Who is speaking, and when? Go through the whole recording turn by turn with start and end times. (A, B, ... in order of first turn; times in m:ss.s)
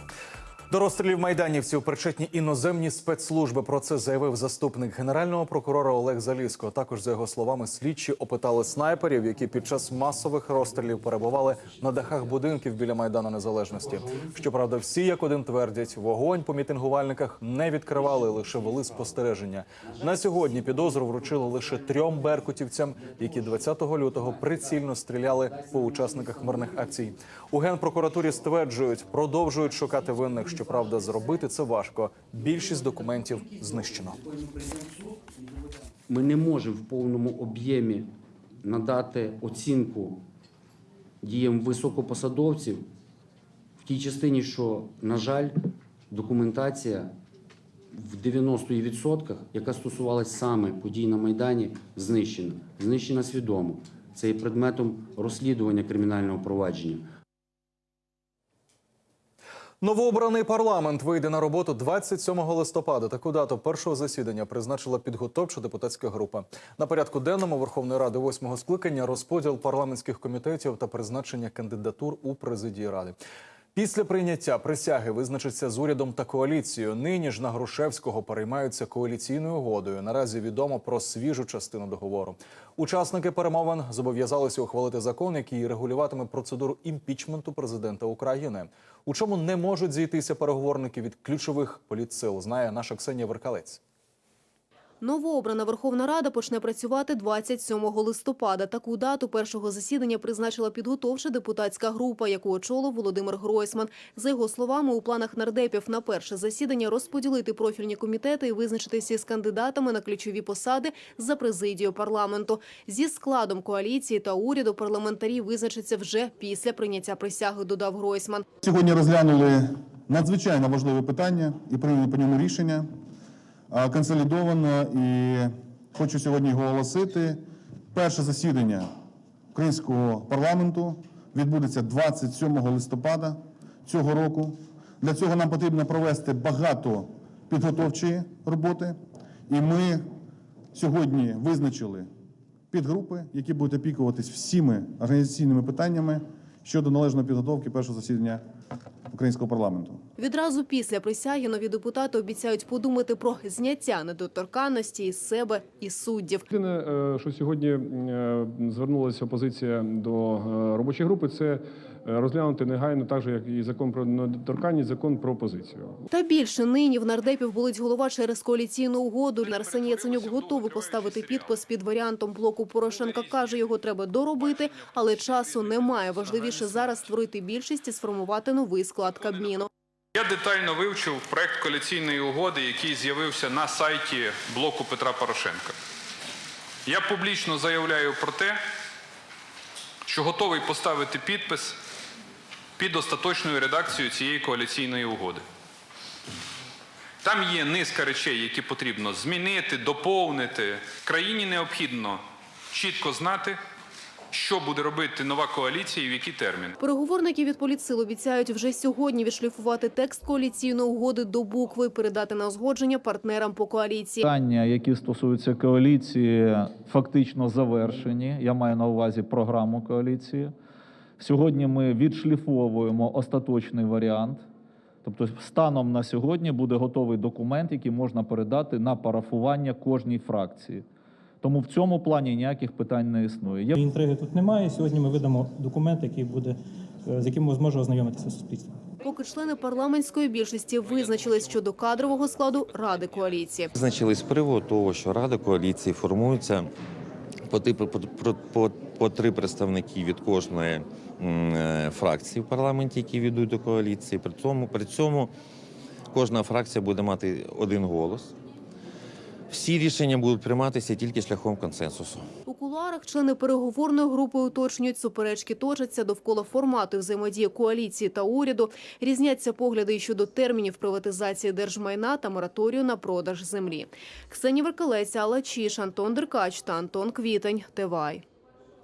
0:00.7-0:34.2 A
0:36.1-0:38.1 B
0:38.6-0:40.2 B
0:41.2-0:42.8 B
0:43.8-0:47.1 B
0:47.9-0:57.1 B
0:59.8-1:13.2 A
1:13.7-1:33.8 A
1:35.0-1:58.4 C
1:58.6-2:02.9 D
2:03.7-2:08.9 D
2:09.5-2:20.1 D
2:20.7-2:22.1 D
2:22.7-2:28.4 D
2:29.1-2:30.0 D
2:30.2-2:36.4 C
2:36.5-2:46.0 E
2:46.1-2:59.7 C
3:00.1-3:05.8 F
3:06.8-3:08.6 F
3:10.0-3:11.8 F
3:12.8-3:15.4 F
3:17.2-3:23.6 F
3:24.3-3:26.8 F
3:26.8-3:34.2 C
3:34.2-3:40.5 G
3:41.2-3:44.4 G
3:45.0-3:50.8 G
3:51.4-3:53.8 G
3:53.7-3:58.8 H
3:59.0-4:03.7 C
4:03.7-4:06.7 I
4:07.5-4:15.3 I
4:16.1-4:18.3 I
4:19.5-4:22.3 I
4:22.5-4:38.2 C